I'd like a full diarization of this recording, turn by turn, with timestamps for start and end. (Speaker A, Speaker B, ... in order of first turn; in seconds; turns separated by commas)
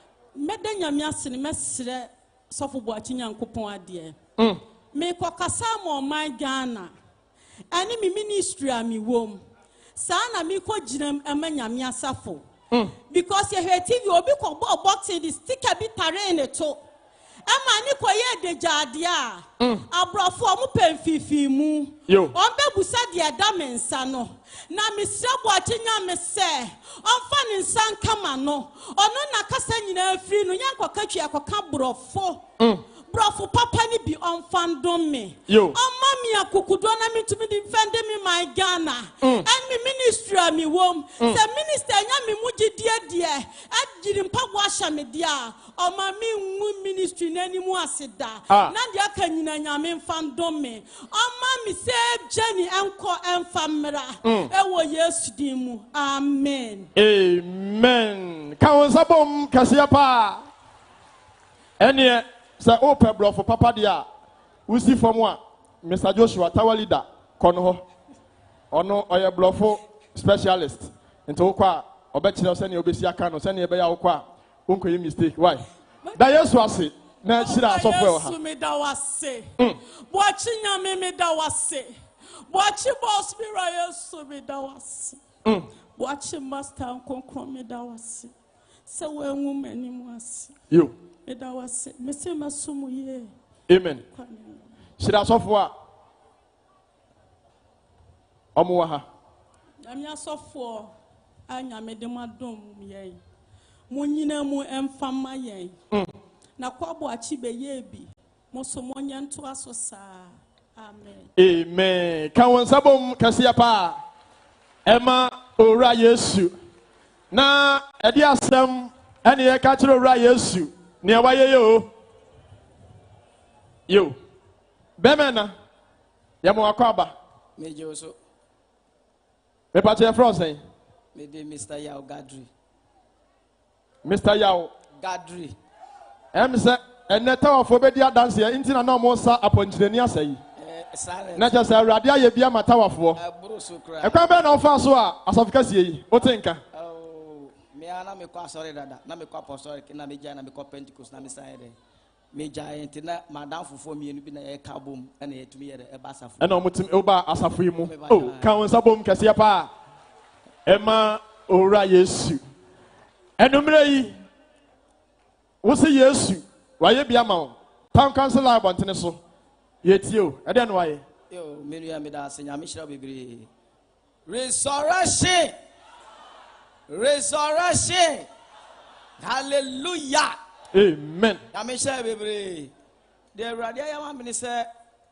Speaker A: 0.3-4.2, Speaker A: 4.9-6.9, Speaker A: 7.7-9.4, Speaker A: 9.9-12.4, Speaker A: 13.0-16.8, Speaker A: 17.5-32.4, Speaker B: 19.6-19.9, Speaker B: 22.1-22.4, Speaker A: 33.1-56.9, Speaker B: 35.5-35.8, Speaker B: 54.2-54.5, Speaker B: 57.0-60.5, Speaker B: 61.8-64.0, Speaker B: 64.7-67.8, Speaker B: 68.7-75.6, Speaker A: 76.0-76.4, Speaker B: 76.1-78.3, Speaker A: 77.3-82.0, Speaker A: 82.5-85.2, Speaker A: 86.0-88.3, Speaker A: 88.8-90.5, Speaker A: 91.2-93.3, Speaker B: 93.7-94.0, Speaker A: 94.0-94.7, Speaker B: 95.0-95.7, Speaker B: 98.5-99.0, Speaker A: 99.8-100.9, Speaker A: 101.5-103.2, Speaker A: 103.9-105.8, Speaker A: 106.6-111.3, Speaker B: 111.3-114.0, Speaker B: 114.8-116.5, Speaker B: 117.3-121.9, Speaker B: 123.9-124.2, Speaker B: 125.0-125.5, Speaker B: 126.4-127.1, Speaker C: 127.6-128.2, Speaker B: 129.7-130.6, Speaker C: 131.2-132.5, Speaker B: 134.0-134.7, Speaker C: 135.0-135.6, Speaker B: 136.3-140.4, Speaker C: 140.6-141.7, Speaker B: 141.4-143.2, Speaker C: 143.1-144.2, Speaker B: 144.0-146.6, Speaker C: 146.7-151.8, Speaker C: 152.3-156.5, Speaker B: 156.4-159.7, Speaker C: 157.8-158.5, Speaker B: 160.7-162.4, Speaker B: 163.4-164.2, Speaker B: 165.6-169.2, Speaker B: 169.8-171.0, Speaker C: 171.3-173.5, Speaker C: 174.2-175.5, Speaker C: 176.9-178.3, Speaker C: 179.2-180.3, Speaker B: 180.7-181.4, Speaker C: 181.5-182.7, Speaker C: 183.3-184.7